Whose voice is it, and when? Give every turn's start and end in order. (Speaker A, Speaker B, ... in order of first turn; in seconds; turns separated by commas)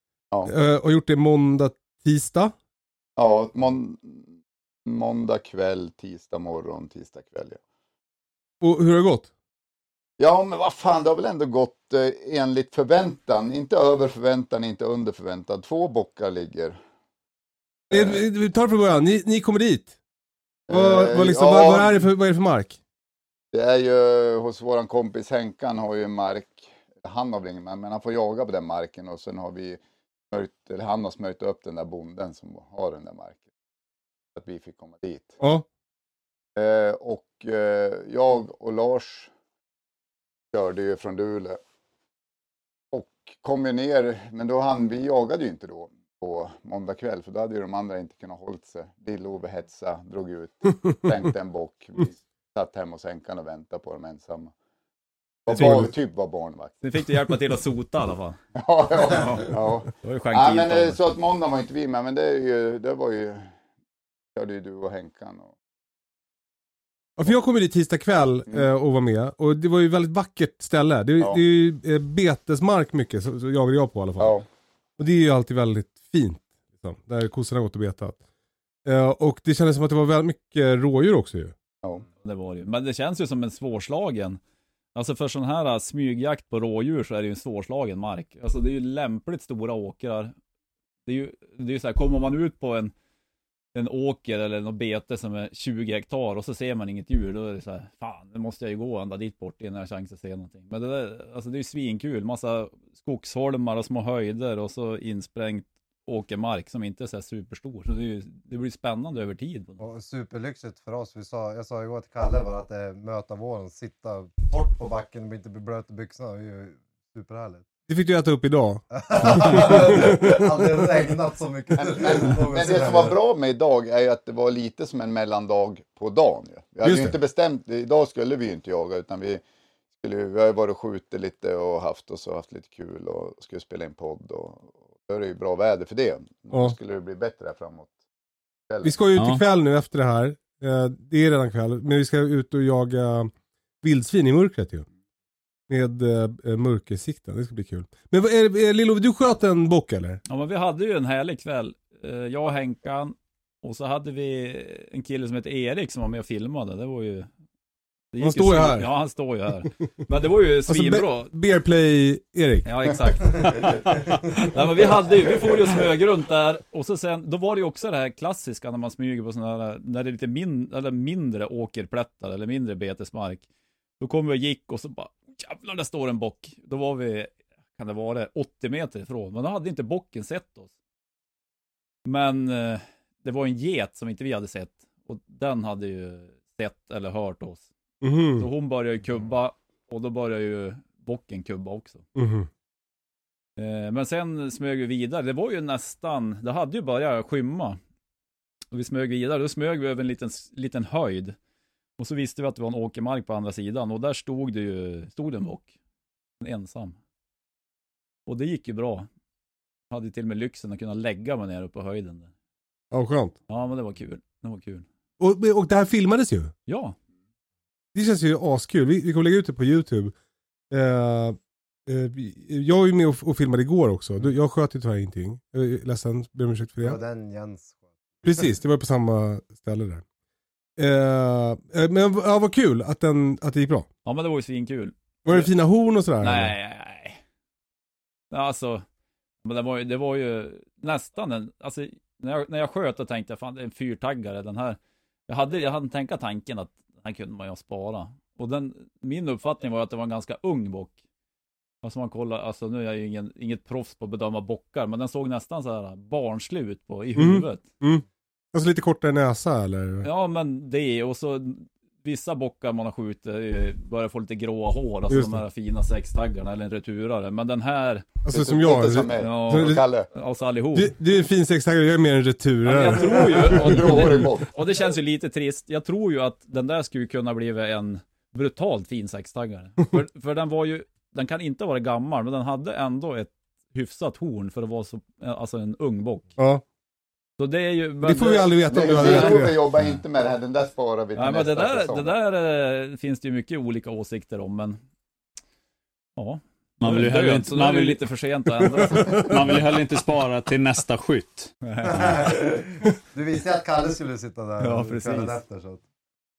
Speaker A: 0.5-2.5, Speaker B: 3.2-7.6, Speaker A: 8.6-9.3, Speaker B: 10.2-16.8, Speaker A: 17.9-19.9, Speaker B: 17.9-18.2, Speaker B: 20.7-21.9, Speaker A: 20.7-22.8, Speaker B: 23.5-29.8, Speaker B: 30.3-33.4, Speaker B: 34.4-35.4, Speaker A: 35.4-35.6, Speaker B: 36.5-39.3, Speaker B: 40.5-41.6, Speaker B: 42.9-54.5, Speaker B: 55.5-56.8, Speaker A: 55.5-55.9, Speaker C: 56.8-58.4, Speaker B: 58.5-63.5, Speaker C: 59.2-59.5, Speaker C: 60.0-61.0, Speaker B: 64.3-65.5, Speaker A: 67.2-74.3, Speaker B: 74.2-74.4, Speaker A: 75.0-78.2, Speaker A: 78.8-81.5, Speaker C: 82.2-84.4, Speaker C: 84.9-90.3, Speaker C: 91.0-92.9, Speaker C: 93.7-109.8, Speaker D: 109.8-117.6, Speaker A: 117.9-120.5, Speaker D: 118.9-123.1, Speaker B: 121.8-129.4, Speaker A: 126.8-127.1, Speaker B: 130.0-137.9, Speaker B: 138.7-138.9, Speaker A: 138.8-143.3, Speaker E: 139.2-139.4, Speaker A: 143.8-144.8, Speaker A: 145.7-150.2, Speaker C: 150.3-157.3, Speaker C: 158.1-161.3, Speaker A: 158.2-158.9, Speaker A: 160.7-162.9, Speaker C: 162.6-163.7, Speaker E: 163.6-164.0, Speaker C: 164.5-173.4, Speaker C: 174.0-180.7, Speaker C: 182.0-187.6, Speaker A: 188.0-188.5, Speaker C: 188.3-192.0, Speaker A: 192.2-192.5, Speaker C: 193.6-197.8, Speaker C: 198.7-201.3, Speaker C: 202.0-205.7, Speaker C: 206.4-207.0, Speaker C: 208.3-209.1, Speaker C: 209.9-212.3, Speaker A: 212.9-213.3, Speaker C: 213.5-214.8, Speaker A: 215.2-216.5, Speaker C: 216.7-216.9, Speaker A: 217.9-220.1, Speaker A: 220.7-227.0, Speaker D: 226.8-228.4, Speaker A: 228.2-230.0, Speaker A: 230.8-233.9, Speaker C: 234.0-235.5, Speaker A: 235.2-236.5, Speaker C: 236.2-237.2, Speaker C: 238.3-238.8, Speaker C: 239.4-250.9, Speaker C: 251.8-257.6, Speaker A: 257.1-260.1, Speaker C: 260.0-268.0, Speaker A: 265.1-265.4, Speaker A: 268.2-269.8, Speaker B: 268.3-270.1, Speaker C: 269.2-270.9, Speaker A: 270.7-274.2, Speaker C: 272.6-286.3, Speaker B: 273.2-274.5, Speaker A: 286.4-286.6, Speaker C: 287.4-289.3, Speaker A: 288.0-289.6, Speaker B: 288.6-292.1, Speaker C: 291.1-294.8, Speaker C: 296.2-299.3, Speaker E: 296.8-298.0, Speaker A: 298.9-299.3, Speaker E: 299.0-301.5, Speaker C: 301.6-302.2, Speaker D: 301.9-305.8, Speaker C: 304.6-305.4